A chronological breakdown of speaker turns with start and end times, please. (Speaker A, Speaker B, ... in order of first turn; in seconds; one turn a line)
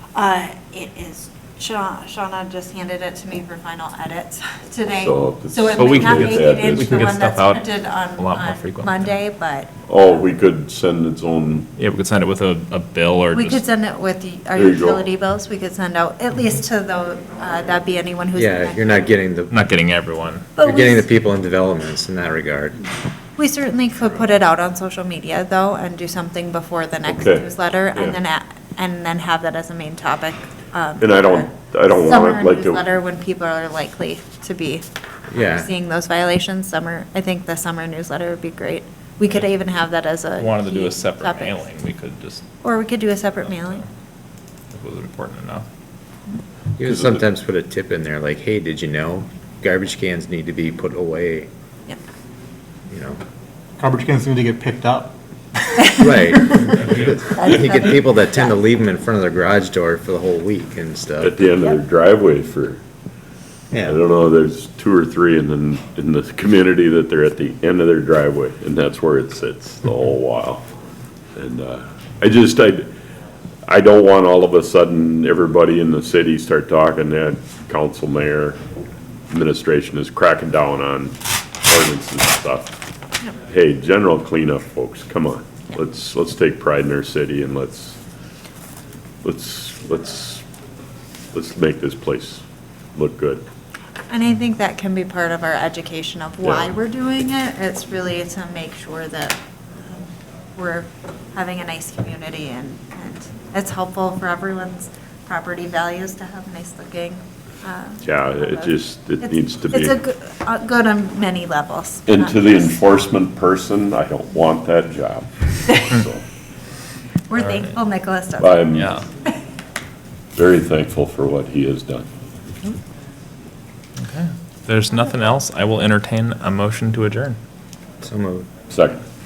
Speaker A: 0.1-10.0
Speaker B: 4.9-7.2
Speaker C: 5.8-9.1
Speaker B: 9.9-11.7
Speaker C: 11.8-13.6
Speaker A: 13.3-19.1
Speaker B: 14.6-15.1
Speaker D: 18.4-19.5
Speaker C: 19.5-20.5
Speaker A: 20.6-21.1
Speaker D: 20.6-22.8
Speaker A: 23.4-34.8
Speaker B: 27.1-28.2
Speaker B: 31.0-32.8
Speaker D: 35.3-35.7
Speaker A: 35.4-41.6
Speaker C: 40.4-42.5
Speaker A: 42.6-43.8
Speaker C: 44.7-45.6
Speaker D: 46.8-51.5
Speaker B: 46.8-47.2
Speaker D: 52.9-53.2
Speaker E: 53.8-56.6
Speaker A: 55.8-56.8
Speaker D: 55.9-61.4
Speaker A: 57.4-58.5
Speaker B: 61.2-62.8
Speaker D: 63.7-64.0
Speaker B: 63.9-70.6
Speaker B: 71.4-72.9
Speaker B: 73.7-78.6
Speaker B: 79.3-82.8
Speaker B: 83.5-88.0
Speaker B: 89.2-90.4
Speaker B: 91.3-92.4
Speaker B: 93.0-93.4
Speaker A: 94.1-112.8
Speaker B: 96.4-96.7
Speaker B: 108.0-110.0
Speaker B: 112.1-116.2
Speaker A: 117.3-119.4
Speaker C: 117.4-117.7
Speaker B: 118.4-119.0
Speaker C: 118.7-119.1
Speaker B: 120.3-122.1
Speaker C: 124.0-127.4
Speaker D: 128.0-128.5
Speaker B: 128.7-129.0